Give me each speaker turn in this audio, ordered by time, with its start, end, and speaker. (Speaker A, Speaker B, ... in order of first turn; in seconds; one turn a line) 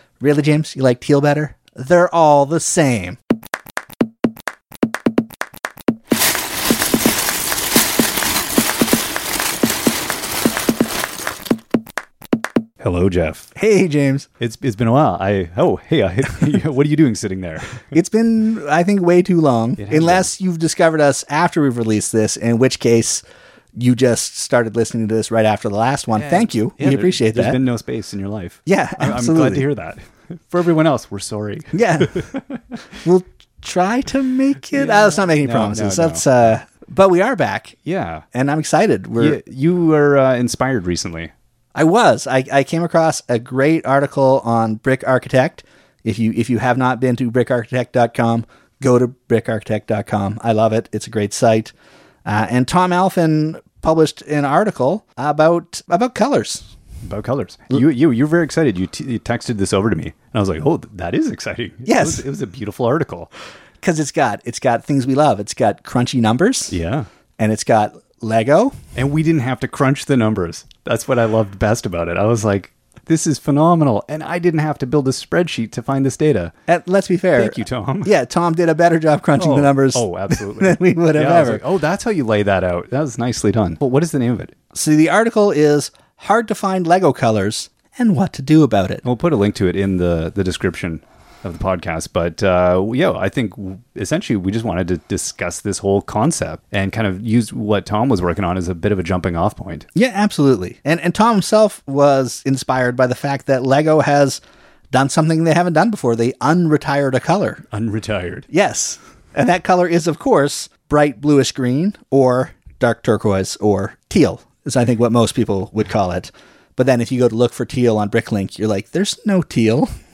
Speaker A: 0.2-3.2
Speaker B: 12.8-13.5
Speaker A: 13.6-14.3
Speaker B: 14.4-17.9
Speaker A: 17.9-23.2
Speaker B: 19.8-20.3
Speaker A: 23.8-27.6
Speaker B: 26.1-32.6
Speaker A: 28.7-29.6
Speaker A: 31.7-32.3
Speaker A: 33.0-37.8
Speaker B: 34.7-36.3
Speaker B: 37.9-38.2
Speaker A: 38.3-39.4
Speaker B: 39.2-41.3
Speaker A: 41.8-51.7
Speaker A: 52.2-56.7
Speaker B: 57.0-63.3
Speaker A: 61.9-62.3
Speaker A: 63.8-66.7
Speaker B: 66.7-67.1
Speaker A: 67.4-68.8
Speaker B: 69.0-76.5
Speaker A: 76.7-81.6
Speaker B: 77.4-78.1
Speaker B: 79.4-84.5
Speaker A: 84.7-89.0
Speaker B: 89.0-99.9
Speaker A: 100.0-104.4
Speaker A: 104.9-107.6
Speaker B: 107.7-108.5
Speaker A: 108.5-119.9